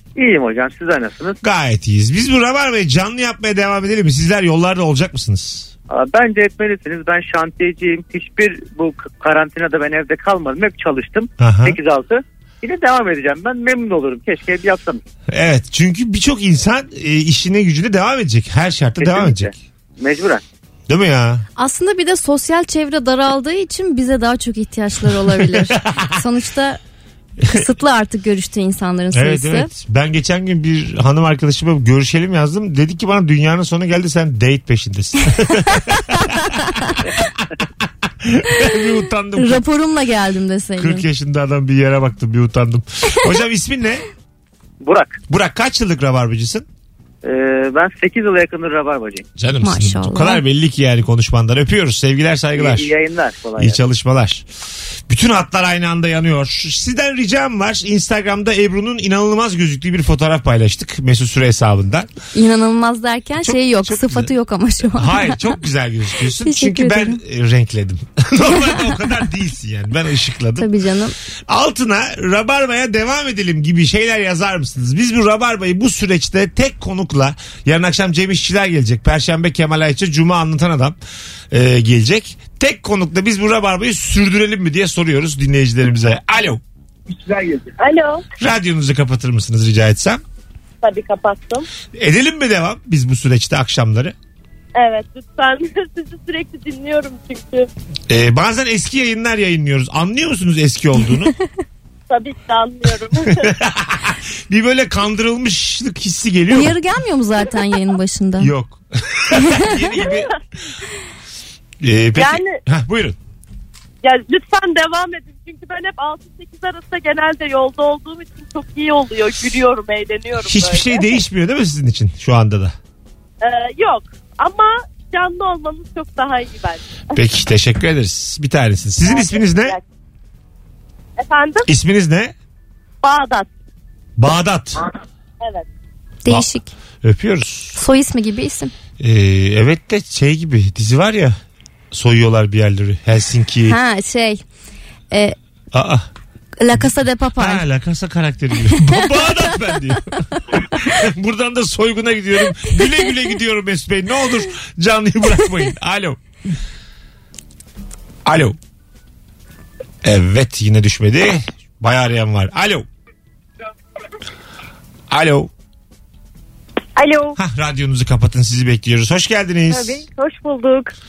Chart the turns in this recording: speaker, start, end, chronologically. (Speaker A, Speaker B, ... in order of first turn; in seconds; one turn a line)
Speaker A: 0.2-1.4
Speaker B: 1.4-5.7
Speaker A: 5.9-15.0
Speaker B: 11.4-11.8
Speaker B: 15.3-19.5
Speaker A: 19.0-20.4
Speaker B: 20.9-21.4
Speaker C: 21.6-26.8
Speaker B: 25.4-26.2
Speaker C: 27.5-29.7
Speaker B: 29.1-39.6
Speaker C: 39.4-41.0
Speaker B: 40.8-44.0
Speaker A: 44.8-45.2
Speaker B: 45.3-46.7
Speaker A: 47.2-49.2
Speaker B: 49.4-52.9
Speaker C: 49.6-50.4
Speaker A: 52.5-53.8
Speaker B: 53.6-54.5
Speaker B: 55.1-62.1
Speaker C: 62.3-65.4
Speaker B: 63.4-64.3
Speaker B: 64.9-70.7
Speaker C: 66.4-67.2
Speaker C: 70.6-71.2
Speaker B: 71.5-81.0
Speaker B: 81.5-86.6
Speaker D: 87.8-88.2
Speaker B: 88.4-90.2
Speaker D: 90.8-91.7
Speaker B: 92.0-94.2
Speaker D: 94.8-97.7
Speaker B: 98.1-101.3
Speaker D: 102.1-103.5
Speaker B: 103.3-106.8
Speaker C: 106.5-108.5
Speaker B: 108.4-110.3
Speaker C: 109.4-109.7
Speaker D: 110.0-110.3
Speaker B: 111.8-113.2
Speaker D: 112.2-112.6
Speaker D: 114.0-121.1
Speaker B: 120.4-122.8
Speaker D: 123.4-126.8
Speaker B: 127.1-129.8
Speaker D: 129.0-129.8
Speaker D: 131.2-131.7
Speaker B: 131.7-132.3
Speaker D: 133.0-133.5
Speaker B: 134.2-134.9
Speaker D: 135.4-135.7
Speaker C: 136.2-136.7
Speaker B: 137.0-137.8
Speaker C: 137.8-138.7
Speaker B: 139.0-141.4
Speaker B: 141.9-143.8
Speaker C: 143.7-144.4
Speaker C: 145.1-145.4
Speaker B: 145.7-146.1
Speaker C: 146.6-147.6
Speaker B: 146.7-156.2
Speaker B: 158.2-158.6
Speaker B: 160.0-162.9
Speaker B: 165.1-165.5
Speaker D: 167.0-167.4
Speaker B: 167.4-170.0
Speaker D: 169.7-170.9